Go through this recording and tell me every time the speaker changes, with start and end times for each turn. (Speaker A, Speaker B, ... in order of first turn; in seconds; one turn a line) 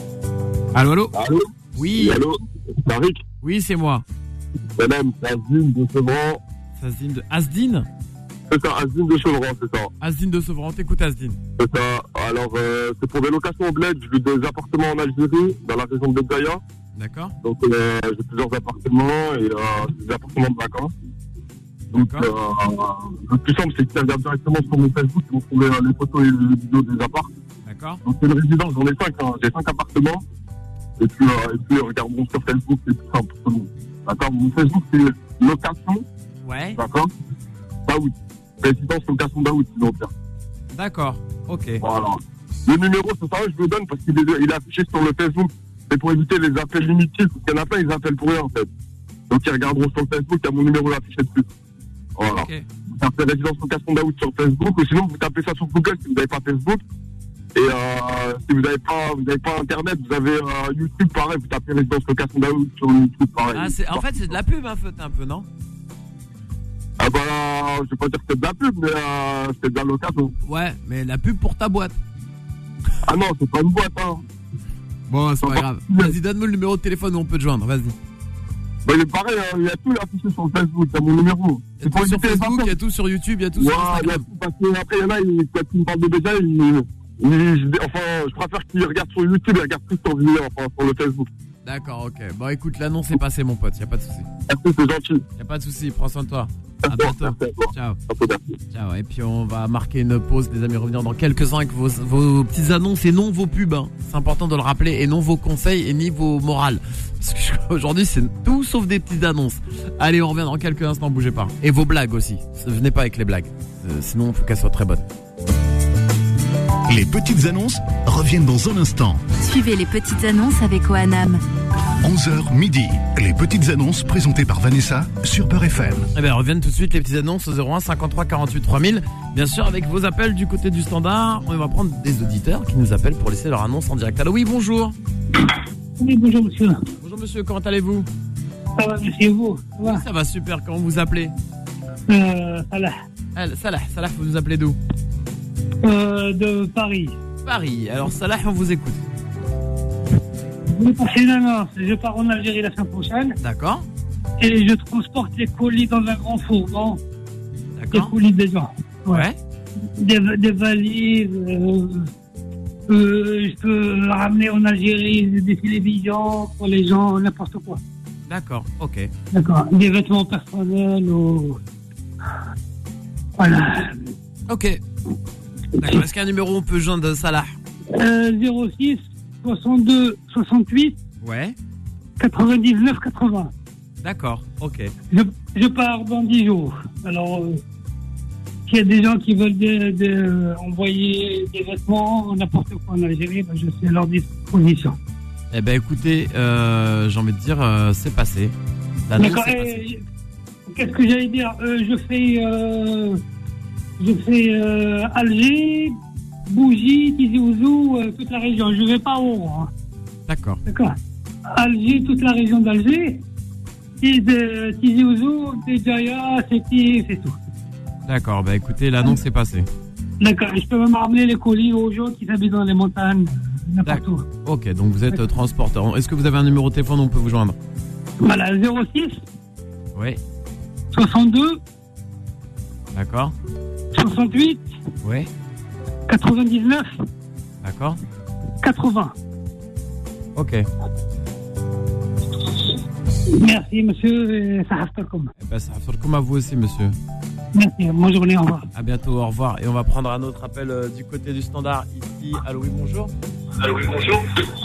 Speaker A: 0.7-1.1
Speaker B: 1.1-3.2
Speaker A: 1.7-2.2
Speaker A: 3.4-4.0
Speaker B: 4.8-6.4
Speaker A: 6.8-7.8
Speaker B: 8.5-9.9
Speaker A: 10.0-11.4
Speaker B: 11.6-16.6
Speaker A: 16.9-17.3
Speaker B: 17.4-20.9
Speaker A: 21.9-22.3
Speaker B: 21.9-27.3
Speaker A: 27.6-28.0
Speaker B: 28.0-30.2
Speaker B: 31.0-36.0
Speaker A: 36.4-36.8
Speaker B: 36.8-37.1
Speaker B: 37.9-40.1
Speaker A: 40.7-41.8
Speaker B: 41.8-48.7
Speaker B: 49.3-51.5
Speaker B: 52.2-56.8
Speaker A: 52.2-52.6
Speaker B: 57.5-64.3
Speaker A: 63.5-65.5
Speaker B: 67.0-70.3
Speaker A: 70.4-72.0
Speaker B: 73.0-74.2
Speaker A: 75.1-78.0
Speaker B: 75.4-76.1
Speaker B: 78.8-82.7
Speaker A: 81.8-84.2
Speaker B: 83.6-91.3
Speaker A: 91.6-94.3
Speaker B: 94.5-95.2
Speaker A: 95.4-98.0
Speaker B: 96.8-98.6
Speaker A: 98.7-115.0
Speaker C: 116.9-119.2
Speaker D: 119.4-121.4
Speaker C: 122.0-126.1
Speaker A: 126.1-134.9
Speaker E: 136.0-136.8
Speaker A: 137.0-138.1
Speaker E: 138.8-140.0
Speaker A: 139.8-141.3
Speaker E: 142.1-142.9
Speaker A: 143.3-144.8
Speaker E: 145.8-147.2
Speaker A: 147.4-149.0
Speaker E: 150.7-153.4
Speaker A: 153.4-153.8
Speaker E: 154.4-157.0
Speaker A: 157.8-158.1
Speaker E: 157.9-159.3
Speaker A: 159.1-159.3
Speaker E: 160.0-162.1
Speaker E: 162.9-167.8
Speaker A: 168.3-169.1
Speaker E: 169.3-171.6
Speaker E: 173.4-174.1
Speaker A: 174.5-174.8
Speaker A: 175.8-177.5
Speaker E: 177.9-181.0
Speaker A: 181.2-181.6
Speaker E: 182.2-183.5
Speaker A: 184.0-184.9
Speaker E: 185.1-187.6
Speaker E: 188.7-194.9
Speaker A: 195.5-198.5
Speaker A: 199.1-199.8
Speaker E: 199.2-200.0
Speaker E: 200.7-203.2
Speaker E: 204.0-206.0
Speaker E: 206.5-209.7
Speaker A: 210.3-210.6
Speaker E: 210.7-210.9
Speaker E: 211.5-213.2
Speaker E: 214.0-217.3
Speaker A: 218.1-219.7
Speaker E: 220.2-224.2
Speaker A: 223.8-227.6
Speaker E: 228.2-229.2
Speaker A: 229.9-230.2
Speaker E: 230.9-231.6
Speaker A: 232.9-233.3
Speaker E: 233.9-234.6
Speaker A: 235.0-235.3
Speaker E: 236.1-236.9
Speaker A: 237.6-238.0
Speaker E: 238.6-239.1
Speaker A: 240.3-240.7
Speaker E: 243.3-245.3
Speaker A: 245.4-246.9
Speaker E: 247.5-248.7
Speaker A: 248.7-253.1